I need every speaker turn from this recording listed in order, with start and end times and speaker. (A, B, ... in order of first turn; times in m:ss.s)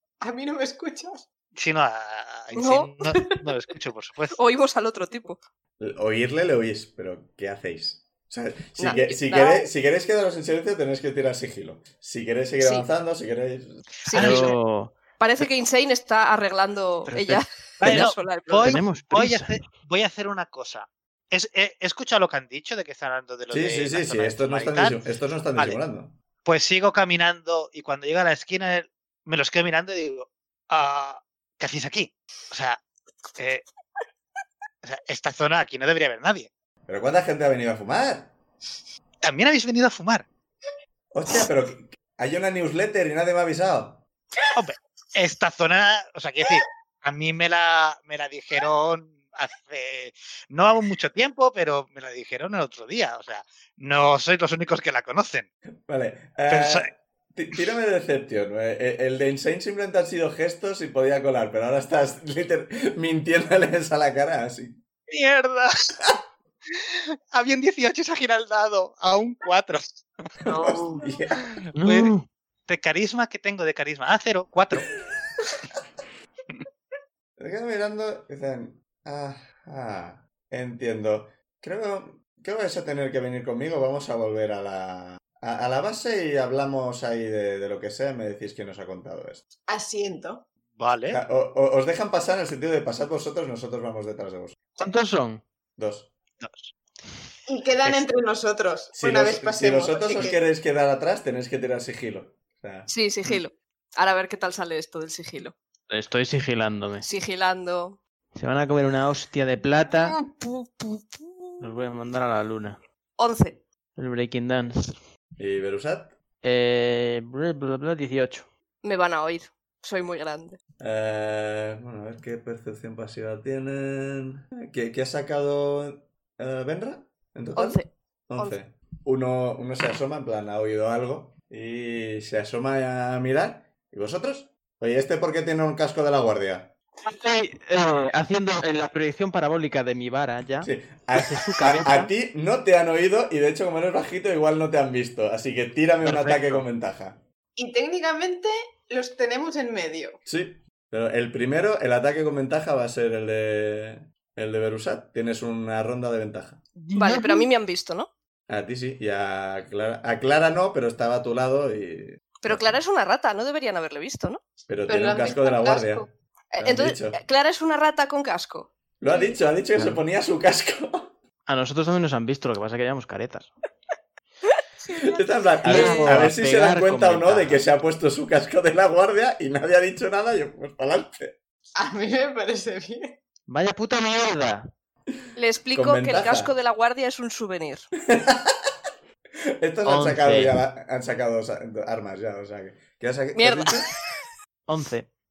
0:00.2-0:01.3 A
0:01.6-0:04.4 B
0:02.6-0:03.4 C
0:04.3-0:05.4 C
0:05.8-0:13.9 D
0:08.8-0:09.6 C
0:08.8-0:09.6 A
0:12.6-0:12.9 C
0:14.1-0:14.6 C
0:14.1-0:14.5 B
0:14.1-0:15.0 E
0:15.2-0:18.8 C
0:17.1-0:18.1 E
0:17.8-0:25.0 B
0:18.6-0:19.6 E
0:23.5-0:26.2 D
0:25.6-0:25.8 B
0:26.4-0:32.8 B
0:33.4-0:33.6 B
0:34.8-0:36.5 B
0:36.9-0:38.3 D
0:39.2-0:40.3 B
0:41.1-0:44.0 D
0:44.6-0:55.5 B
0:55.9-1:04.8 D
0:56.5-0:56.9 B
1:05.1-1:06.1 B
1:06.7-1:11.0 B
1:10.4-1:11.4 D
1:11.6-1:12.1 B
1:11.7-1:12.2 E
1:12.7-1:14.9 B
1:17.4-1:29.4 D
1:29.7-1:30.4 A
1:30.8-1:31.2 B
1:31.1-1:34.6 D
1:34.8-1:35.4 E
1:35.8-1:36.1 D
1:36.4-1:36.7 B
1:37.5-1:40.4 A
1:38.9-1:42.9 D
1:42.9-1:45.6 C
1:45.9-1:47.0 E
1:47.0-1:48.0 C
1:48.3-1:50.2 E
1:50.4-1:51.0 C
1:51.6-1:52.8 E
1:53.2-1:53.6 C
1:54.0-1:55.0 E
1:55.4-1:56.2 D
1:56.4-1:58.5 E
1:58.8-2:00.6 C
2:00.8-2:16.7 D
2:07.6-2:08.6 C
2:17.0-2:22.1 E
2:20.6-2:27.2 D
2:26.0-2:26.6 B
2:27.6-2:30.2 A
2:30.2-2:36.6 D
2:36.8-2:37.5 E
2:37.0-2:38.1 C
2:38.5-2:42.8 D
2:42.4-2:44.4 C
2:44.7-2:46.1 D
2:44.9-2:46.1 A
2:46.5-2:49.4 C
2:46.6-2:47.2 D
2:49.0-2:51.2 D
2:51.5-2:53.5 E
2:55.0-3:01.4 D
2:55.6-2:57.6 E
2:55.7-2:56.1 C
3:01.7-3:03.2 A
3:03.5-3:04.7 E
3:05.4-3:07.9 C
3:05.7-3:06.6 D
3:08.1-3:08.7 D
3:09.6-3:13.9 D
3:09.8-3:10.6 E
3:13.3-3:13.9 C
3:14.7-3:15.1 E